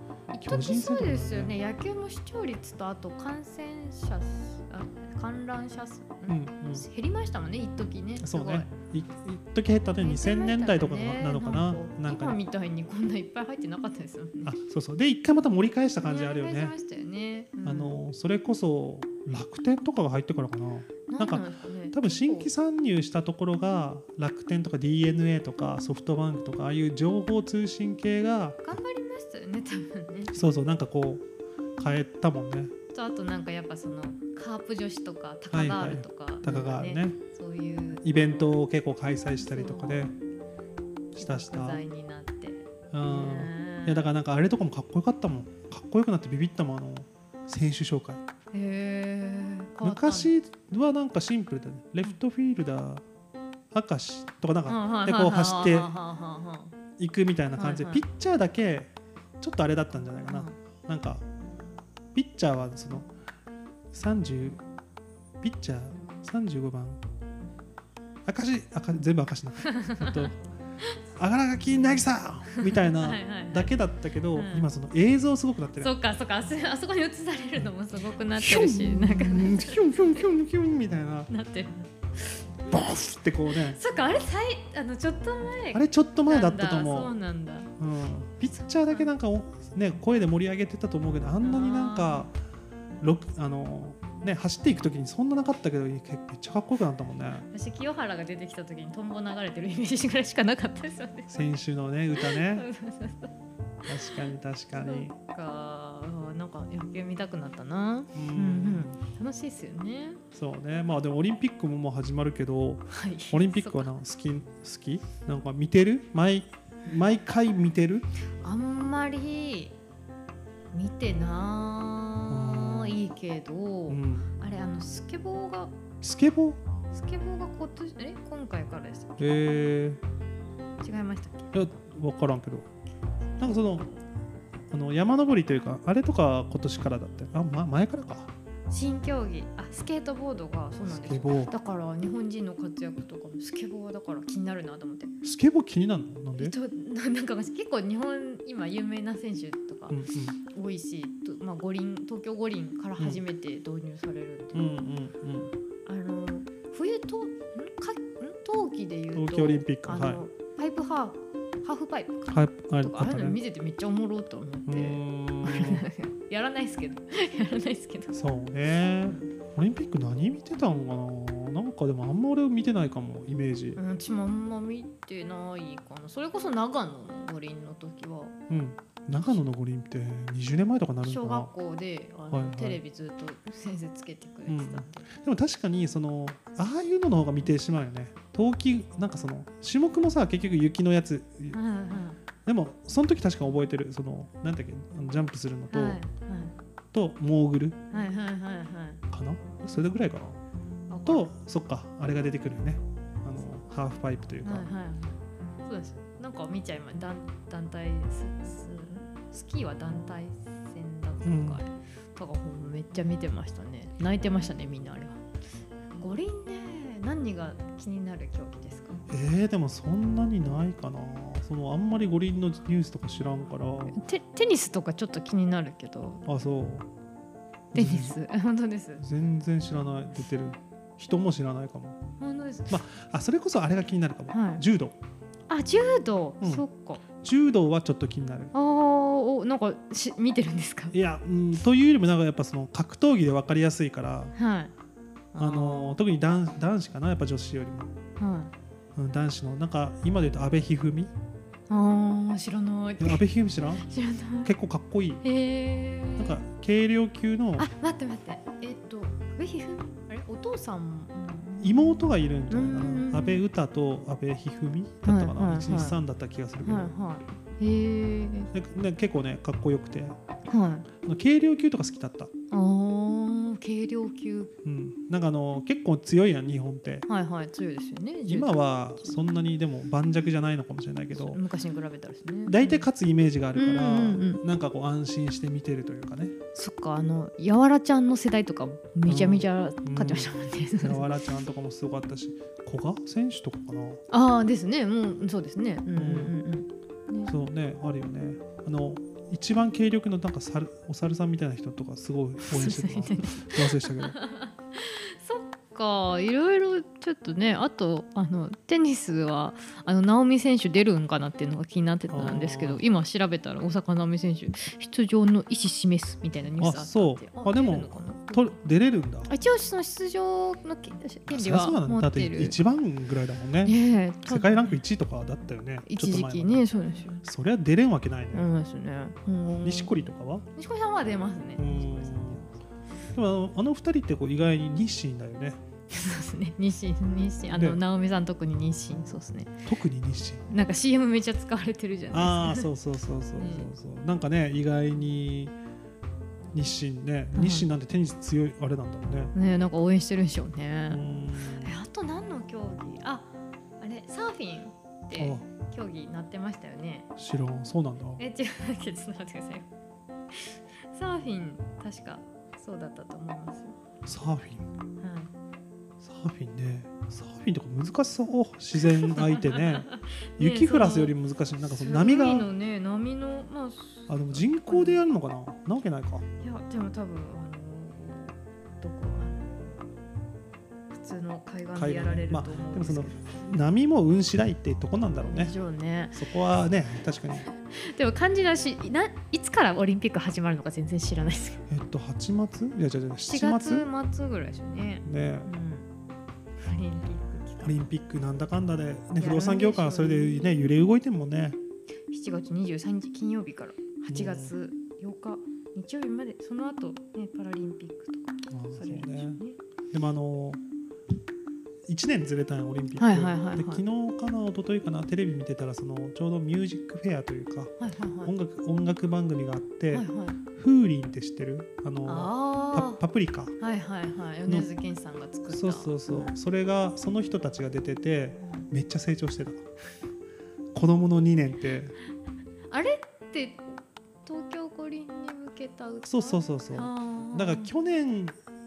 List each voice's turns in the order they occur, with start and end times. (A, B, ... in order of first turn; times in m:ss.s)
0:00.3-0:08.7 A
0:00.4-0:01.6 B
0:06.3-0:06.9 B
0:08.2-0:12.4 B
0:10.0-0:14.5 A
0:14.4-0:16.8 B
0:16.0-0:18.0 A
0:17.6-0:28.6 B
0:21.1-0:22.5 A
0:28.6-0:30.4 A
0:30.3-0:31.2 B
0:31.8-0:32.7 B
0:32.9-0:38.6 A
0:35.5-0:37.2 B
0:38.0-0:40.1 B
0:39.4-0:40.1 A
0:41.1-0:41.8 B
0:41.2-0:44.1 A
0:42.9-0:48.2 B
0:48.5-0:50.3 A
0:49.8-0:53.0 B
0:53.7-0:55.9 B
0:54.7-0:56.7 A
0:57.0-1:01.2 B
0:57.6-0:58.0 A
1:00.3-1:00.6 A
1:02.1-1:03.1 B
1:03.9-1:04.6 B
1:05.4-1:07.0 B
1:08.2-1:10.4 B
1:09.7-1:10.2 A
1:11.2-1:15.9 B
1:12.6-1:13.7 A
1:14.3-1:14.7 A
1:15.8-1:20.2 A
1:18.3-1:21.3 B
1:21.3-1:21.9 A
1:22.7-1:23.8 B
1:23.6-1:27.7 A
1:25.7-1:27.1 B
1:27.8-1:32.3 B
1:28.4-1:29.1 A
1:31.4-1:32.3 A
1:33.0-1:37.5 B
1:37.5-1:41.5 A
1:41.3-1:42.7 B
1:42.1-1:43.3 A
1:43.8-1:45.1 B
1:44.7-1:50.2 A
1:48.1-1:49.0 B
1:50.3-1:58.0 B
1:52.9-1:53.9 A
1:58.4-1:59.7 A
2:00.7-2:05.7 A
2:02.3-2:03.0 B
2:03.9-2:04.3 B
2:06.0-2:06.6 B
2:06.9-2:09.2 A
2:09.2-2:10.0 B
2:10.8-2:11.5 A
2:11.5-2:12.6 B
2:13.4-2:13.9 B
2:14.7-2:18.3 B
2:18.7-2:25.1 A
2:20.8-2:21.5 B
2:25.2-2:26.5 B
2:26.4-2:34.7 A
2:29.9-2:30.4 B
2:34.5-2:35.5 B
2:35.8-2:48.2 A
2:39.1-2:40.2 B
2:42.3-2:43.4 B
2:44.7-2:45.9 B
2:48.1-2:53.8 B
2:49.0-2:49.3 A
2:53.8-2:58.4 A
2:58.5-3:01.5 B
3:01.0-3:05.1 A
3:02.3-3:02.8 B
3:04.5-3:11.6 B
3:11.5-3:12.2 A
3:12.4-3:16.0 B
3:15.7-3:16.5 A
3:16.9-3:17.8 B
3:17.9-3:19.0 A
3:19.1-3:20.4 B
3:20.9-3:21.3 A
3:21.0-3:24.7 B
3:24.4-3:35.2 A
3:31.2-3:31.6 B
3:35.9-3:39.0 A
3:39.1-3:44.0 B
3:43.9-3:46.2 A
3:46.2-3:46.9 B
3:47.7-3:48.2 B
3:47.7-3:49.0 A
3:49.0-3:52.0 B
3:52.2-3:52.8 A
3:52.7-3:54.9 B
3:54.3-3:54.6 A
3:55.5-3:57.0 A
3:57.2-3:58.5 B
3:58.5-4:00.9 A
4:00.9-4:04.3 B
4:04.3-4:04.7 A
4:05.3-4:06.0 A
4:05.4-4:07.9 B
4:08.2-4:08.5 A
4:09.0-4:11.1 B
4:11.7-4:13.2 A
4:13.0-4:13.8 B
4:13.8-4:14.5 A
4:14.4-4:15.2 B
4:15.2-4:16.3 A
4:16.2-4:17.7 B
4:17.6-4:23.4 A
4:21.6-4:26.9 B
4:25.0-4:26.0 A
4:26.6-4:28.5 A
4:28.5-4:30.2 B
4:30.5-4:30.9 A
4:31.0-4:32.3 B
4:32.5-4:34.5 A
4:34.6-4:37.0 B
4:37.1-4:39.2 A
4:38.2-4:41.4 B
4:41.1-4:42.9 A
4:42.4-4:46.3 B
4:43.5-4:44.4 A
4:46.5-4:51.1 A
4:49.0-4:54.0 B
4:54.1-4:57.3 A
4:56.0-4:56.3 B
4:57.2-5:04.2 B
5:02.5-5:18.6 A
5:12.1-5:12.8 B
5:16.6-5:19.3 B
5:19.3-5:22.6 A
5:21.3-5:26.6 B
5:23.6-5:24.8 A
5:25.8-5:27.2 A
5:27.2-5:28.5 B
5:28.3-5:32.5 A
5:29.6-5:30.4 B
5:31.6-5:32.4 B
5:33.1-5:35.6 B
5:35.9-5:39.6 A
5:37.5-5:37.8 B
5:39.6-5:40.4 B
5:40.5-5:42.7 A
5:42.1-5:45.5 B
5:43.4-5:43.7 A
5:46.5-5:49.3 B
5:47.3-5:47.7 A
5:49.3-5:53.3 A
5:50.9-5:51.7 B
5:53.8-5:57.1 A
5:55.1-5:55.4 B
5:57.2-5:58.2 B
5:58.2-5:59.6 A
6:00.3-6:03.8 A
6:04.0-6:04.7 B
6:05.0-6:05.3 A
6:06.0-6:12.5 B
6:08.8-6:11.1 A
6:11.8-6:15.0 A
6:14.1-6:16.2 B
6:16.4-6:19.9 A
6:20.9-6:23.3 A
6:21.7-6:25.5 B
6:25.2-6:26.2 A
6:26.1-6:27.5 B
6:27.7-6:31.6 A
6:31.7-6:33.9 B
6:33.3-6:35.9 A
6:35.0-6:35.5 B
6:36.6-6:37.8 A
6:37.6-6:41.6 B
6:39.2-6:40.6 A
6:42.1-6:49.6 A
6:44.1-6:44.5 B
6:48.5-6:49.4 B
6:49.9-6:50.6 B
6:51.9-6:57.7 B
6:53.0-6:53.8 A
6:57.8-6:58.3 A
6:58.2-7:03.5 B
6:59.9-7:00.4 A
7:02.0-7:03.0 A
7:03.6-7:06.3 A
7:05.5-7:09.6 B
7:10.7-7:12.0 B
7:12.7-7:13.7 A
7:14.2-7:17.7 A
7:16.0-7:18.4 B